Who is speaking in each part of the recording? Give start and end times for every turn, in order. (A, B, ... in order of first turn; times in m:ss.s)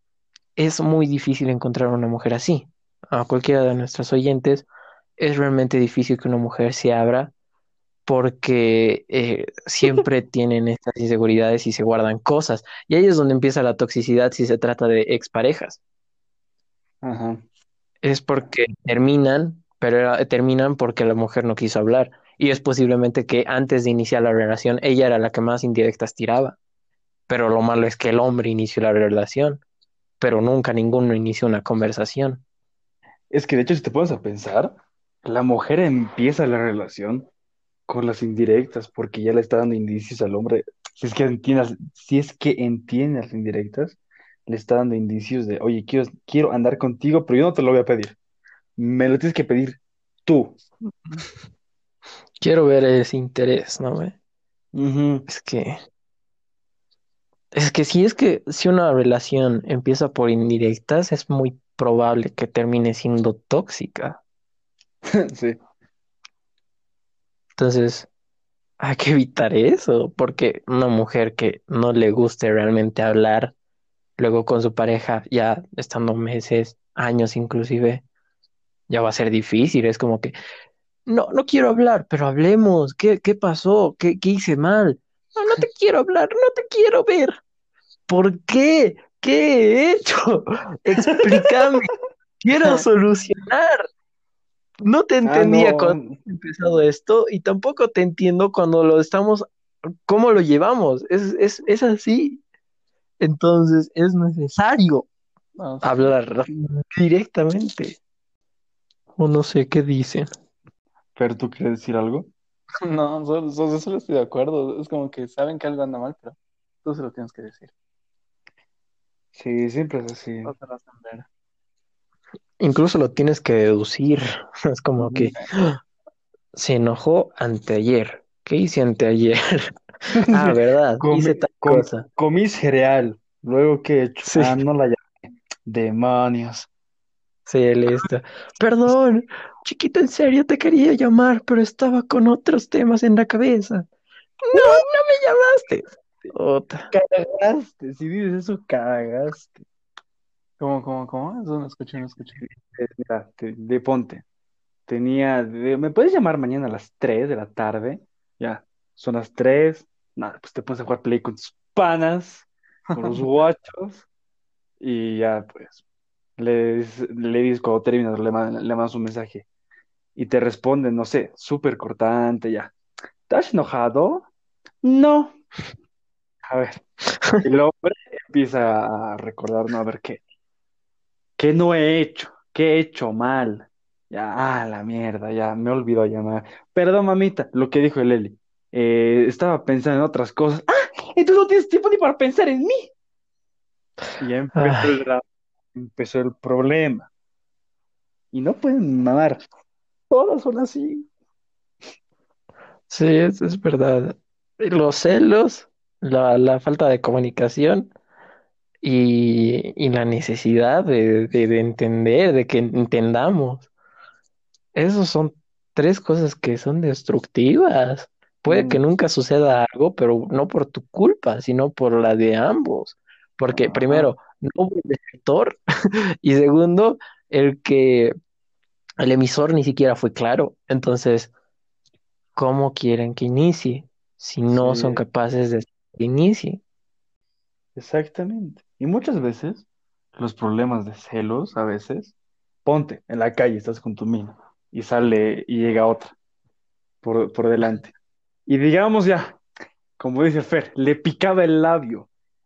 0:00.6-0:07.3 A
0:08.0-0:15.8 A
0:17.0-0:17.4 B
0:18.0-0:26.6 A
0:27.3-0:29.6 A
0:30.2-0:32.4 A
0:33.3-0:37.3 B
0:37.9-0:48.2 B
0:48.8-0:50.6 B
0:52.4-0:54.1 A
0:54.7-0:55.2 B
0:55.3-0:55.8 A
0:57.5-1:04.2 A
1:05.0-1:05.6 B
1:07.6-1:08.1 A
1:08.8-1:13.5 A
1:14.2-1:18.0 A
1:18.9-1:20.3 A
1:21.1-1:27.4 A
1:28.1-1:31.9 A
1:32.4-1:33.8 A
1:34.8-1:39.4 A
1:35.2-1:36.2 B
1:40.1-1:42.4 A
1:43.2-1:45.1 A
1:45.6-1:46.1 C
1:45.8-1:48.0 A
1:49.2-1:50.3 A
1:51.2-1:52.3 B
1:52.8-1:57.7 C
1:59.3-2:00.5 B
2:00.4-2:01.3 C
2:02.6-2:05.8 A
2:06.5-2:12.0 A
2:10.3-2:15.0 B
2:14.2-2:14.6 A
2:15.6-2:16.7 B
2:17.4-2:23.9 A
2:24.4-2:26.9 A
2:24.5-2:24.8 B
2:26.9-2:29.6 B
2:30.6-2:32.4 C
2:32.4-2:34.2 B
2:34.9-2:44.0 B
2:42.9-2:43.2 C
2:44.8-2:45.8 B
2:46.4-2:49.4 B
2:50.2-2:52.7 B
2:53.3-2:54.3 B
2:54.8-2:55.4 B
2:56.4-2:56.8 B
2:57.2-2:57.4 A
2:57.4-3:00.2 B
3:01.4-3:12.9 B
3:14.2-3:15.2 B
3:14.6-3:15.0 A
3:15.7-3:17.1 B
3:18.3-3:19.4 B
3:20.1-3:21.1 B
3:22.9-3:27.9 A
3:28.8-3:33.7 A
3:34.7-3:45.6 A
3:38.4-3:38.8 B
3:43.5-3:44.1 B
3:46.2-3:48.1 A
3:49.0-3:51.3 A
3:52.3-3:56.6 A
3:54.5-3:55.0 B
3:57.8-4:02.1 B
4:02.6-4:06.1 B
4:07.0-4:07.9 B
4:08.5-4:09.4 B
4:10.0-4:12.1 B